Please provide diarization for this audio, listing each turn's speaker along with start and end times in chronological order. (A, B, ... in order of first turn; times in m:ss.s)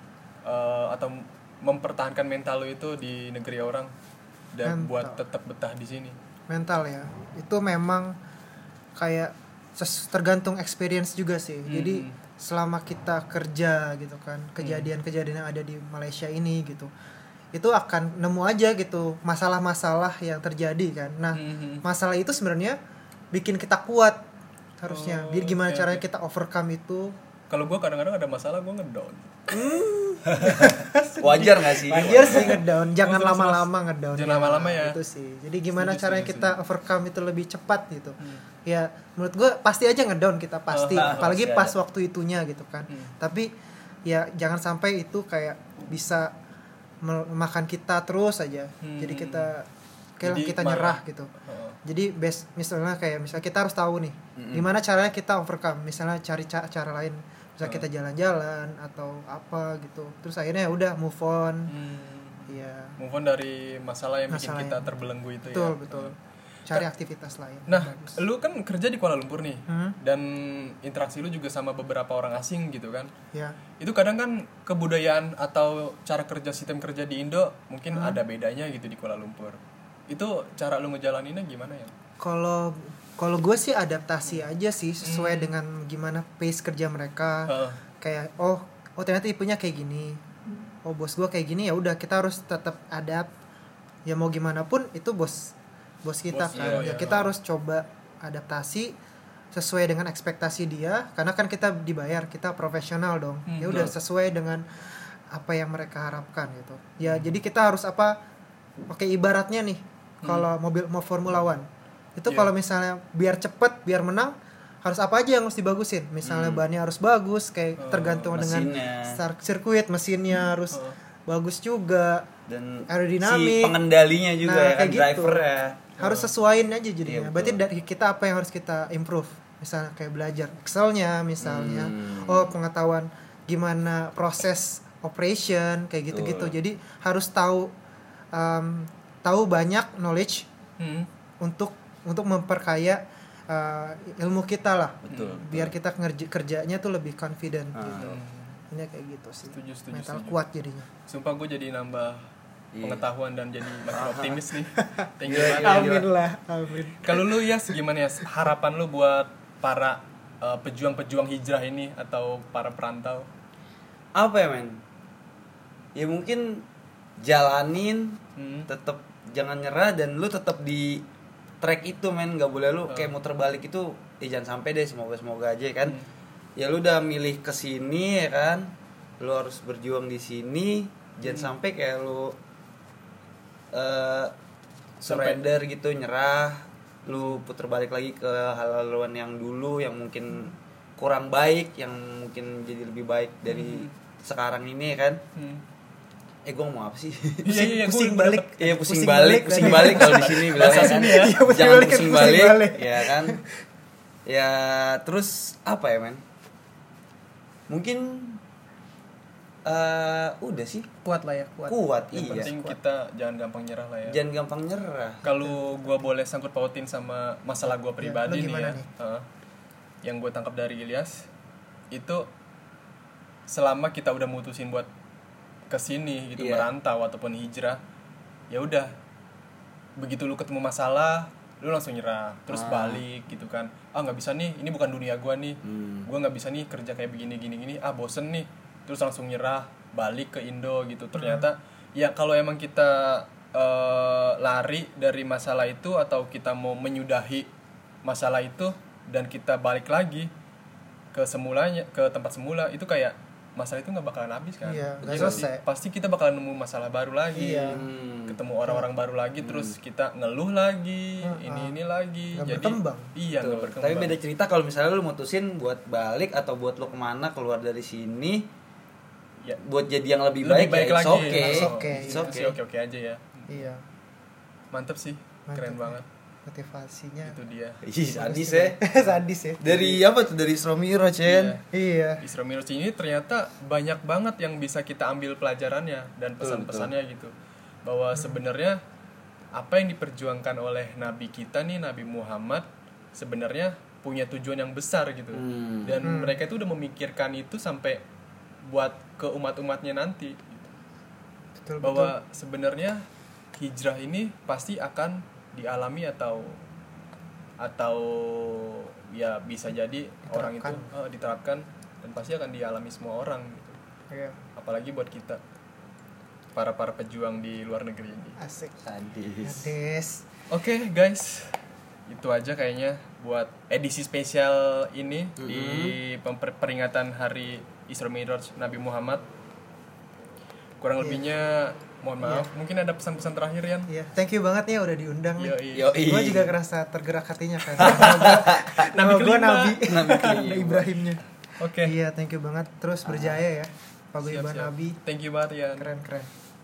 0:00.4-0:03.9 A
0:04.5-0:06.2 A
0:04.6-0:05.2 B
0:06.5-0:08.1 B
0:09.0-0:16.9 B
0:11.7-0:12.2 A
0:14.6-0:14.9 A
0:17.5-0:22.8 B
0:21.3-0:21.8 A
0:23.3-0:24.2 B
0:24.8-0:27.2 B
0:24.9-0:26.0 A
0:27.5-0:29.5 A
0:29.5-0:43.5 B
0:30.3-0:32.6 C
0:32.1-0:35.0 A
0:35.8-0:36.6 A
0:40.7-0:41.3 A
0:41.0-0:41.7 C
0:44.1-0:46.3 B
0:47.0-0:49.7 B
0:48.8-0:49.5 A
0:50.2-0:51.3 B
0:50.2-0:51.8 A
0:51.8-1:01.7 B
0:54.4-0:54.7 C
1:01.7-1:06.2 A
1:02.5-1:03.0 B
1:04.3-1:04.9 B
1:05.4-1:06.1 B
1:06.7-1:08.2 B
1:07.7-1:13.1 A
1:09.7-1:10.0 B
1:13.3-1:13.6 B
1:13.8-1:19.6 A
1:17.9-1:18.2 B
1:20.1-1:21.9 A
1:22.2-1:30.2 B
1:25.0-1:25.5 A
1:27.5-1:27.8 A
1:30.8-1:33.3 B
1:34.1-1:38.9 B
1:36.3-1:37.3 A
1:36.5-1:37.0 C
1:39.5-1:48.2 B
1:43.5-1:43.9 A
1:47.1-1:47.4 A
1:48.9-2:02.3 B
1:50.2-1:50.5 A
1:56.2-1:56.6 C
1:57.8-1:58.4 A
1:58.3-1:59.2 C
2:02.5-2:05.8 C
2:02.9-2:03.8 B
2:04.4-2:05.4 B
2:06.0-2:17.7 B
2:06.0-2:06.3 A
2:07.0-2:07.6 C
2:11.4-2:12.5 C
2:16.1-2:16.6 C
2:18.3-2:20.5 B
2:20.8-2:21.1 A
2:21.4-2:28.1 B
2:25.0-2:25.7 C
2:25.1-2:25.4 A
2:27.7-2:28.2 C
2:28.0-2:28.6 A
2:28.7-2:30.9 B
2:29.5-2:30.4 A
2:31.1-2:32.2 A
2:32.7-2:33.0 C
2:32.8-2:36.0 A
2:33.9-2:34.4 C
2:34.8-2:37.5 B
2:35.2-2:36.1 C
2:37.0-2:43.3 A
2:44.2-2:44.8 C
2:46.0-2:46.7 C
2:47.2-2:51.1 C
2:48.4-2:48.7 A
2:51.6-2:56.0 C
2:56.6-3:02.4 C
3:01.2-3:01.5 A
3:03.7-3:04.3 C
3:05.0-3:15.2 C
3:05.0-3:05.4 A
3:13.5-3:13.9 A
3:15.4-3:15.6 A
3:16.4-3:17.7 C
3:17.4-3:18.6 A
3:17.4-3:23.5 B
3:18.6-3:23.4 C
3:19.5-3:21.4 A
3:24.3-3:26.2 C
3:27.7-3:28.4 C
3:29.7-3:30.9 C
3:31.0-3:32.8 B
3:31.7-3:32.5 C
3:32.2-3:34.2 A
3:34.1-3:35.2 C
3:35.2-3:39.3 A
3:35.4-3:36.0 B
3:38.0-3:38.9 B
3:40.0-3:41.3 A
3:41.9-3:42.3 A
3:43.5-3:44.9 A
3:45.7-3:47.8 A
3:46.4-3:46.7 C
3:48.5-3:48.9 A
3:50.0-4:07.5 A
3:52.5-3:53.0 C
3:55.6-3:56.1 C
4:01.2-4:01.5 B
4:08.0-4:10.3 A
4:11.1-4:24.2 A
4:14.6-4:15.6 B
4:15.0-4:15.4 C
4:17.3-4:17.8 B
4:17.7-4:18.4 C
4:19.4-4:19.8 C
4:21.2-4:21.8 B
4:22.3-4:23.1 B
4:23.4-4:28.5 C
4:29.6-4:32.5 C
4:30.4-4:33.5 A
4:31.2-4:32.5 B
4:33.5-4:33.8 B
4:34.7-4:36.1 A
4:35.5-4:37.4 B
4:37.3-4:37.8 A
4:37.8-4:38.8 C
4:38.1-4:39.6 B
4:39.6-4:41.6 C
4:39.6-4:40.0 A
4:41.2-4:41.6 A
4:41.7-4:42.2 B
4:42.2-4:47.3 A
4:46.4-4:46.9 C
4:47.8-4:48.8 A
4:49.6-4:58.0 A
4:55.3-4:56.0 C
4:56.0-4:56.4 B
4:58.7-5:00.7 A
5:01.6-5:02.2 B
5:01.8-5:03.0 A
5:03.6-5:06.6 A
5:07.6-5:13.8 A
5:10.3-5:10.9 B
5:14.1-5:14.4 B
5:14.6-5:15.4 A
5:16.5-5:18.4 A
5:18.4-5:18.8 B
5:18.8-5:19.7 C
5:19.4-5:20.2 B
5:20.5-5:29.2 A
5:25.4-5:26.0 C
5:30.8-5:33.9 A
5:32.2-5:32.5 B
5:33.9-5:45.0 B
5:35.4-5:35.9 A
5:35.7-5:36.5 C
5:37.8-5:38.7 C
5:37.8-5:40.0 A
5:39.9-5:40.9 C
5:41.6-5:41.9 A
5:43.0-5:43.4 C
5:44.2-5:45.9 A
5:45.8-5:46.3 B